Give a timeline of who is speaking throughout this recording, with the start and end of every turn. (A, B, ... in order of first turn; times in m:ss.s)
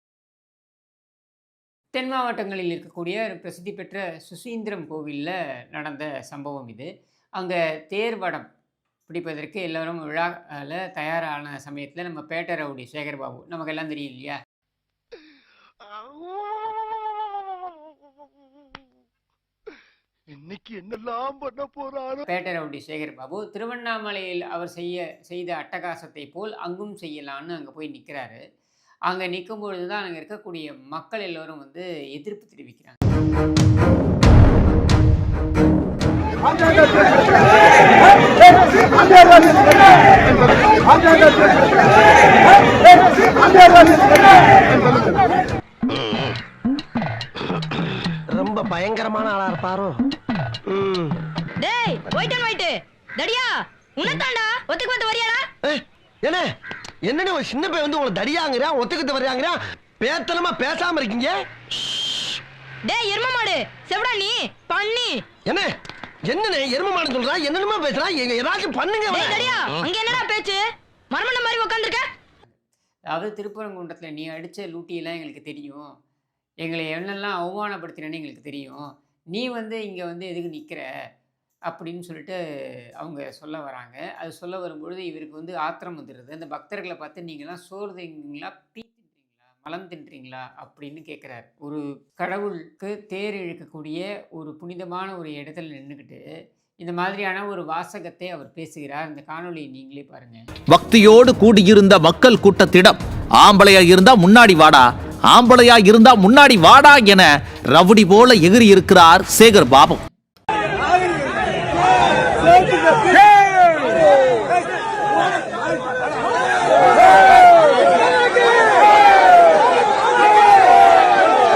0:01.9-0:08.5 A
0:09.1-0:14.4 A
0:15.9-0:16.9 B
0:20.3-0:22.2 B
0:22.3-0:28.4 A
0:29.1-0:33.0 A
0:48.3-0:49.9 C
0:51.6-0:55.4 D
0:55.7-0:56.4 C
0:57.1-1:01.3 C
1:02.8-1:05.2 D
1:06.3-1:09.4 C
1:09.1-1:10.6 D
1:11.1-1:12.0 D
1:13.1-1:15.9 A
1:16.6-1:20.9 A
1:21.7-1:22.4 A
1:23.0-1:36.2 A
1:36.8-1:40.4 A
1:40.7-1:50.0 E